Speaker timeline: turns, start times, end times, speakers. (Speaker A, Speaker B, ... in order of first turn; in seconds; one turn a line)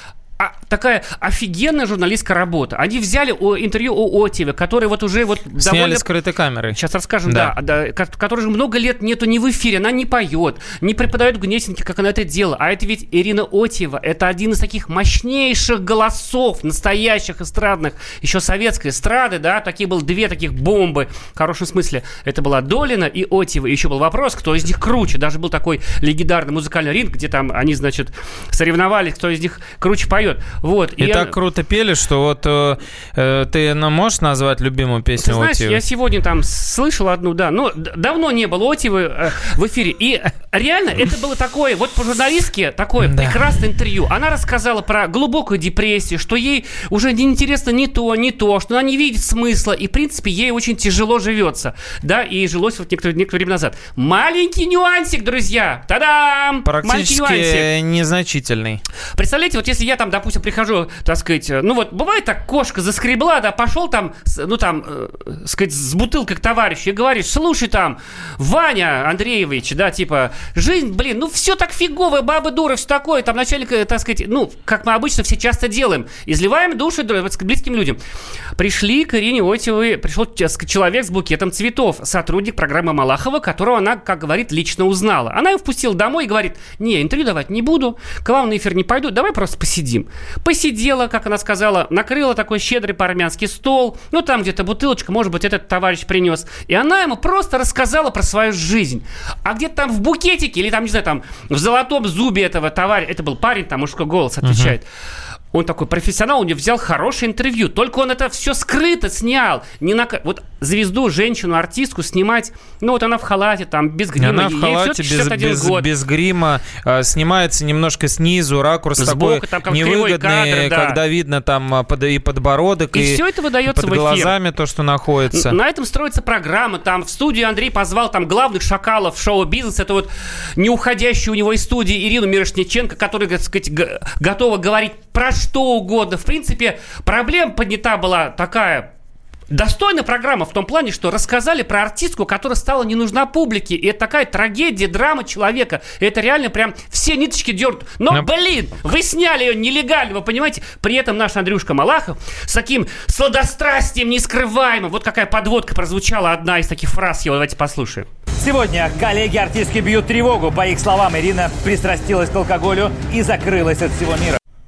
Speaker A: 0.4-6.0
Speaker B: 5.6-7.5
Speaker A: 6.7-31.3
Speaker B: 31.0-35.8
Speaker A: 35.2-57.7
Speaker B: 43.0-43.4
Speaker B: 56.6-58.8
Speaker A: 59.1-78.0
Speaker A: 78.6-104.8
Speaker B: 104.4-104.8
Speaker A: 105.5-115.9
Speaker B: 114.2-125.5
Speaker A: 119.0-121.0
Speaker A: 122.9-124.3
Speaker A: 125.3-138.9
Speaker A: 139.5-158.1
Speaker C: 158.4-164.4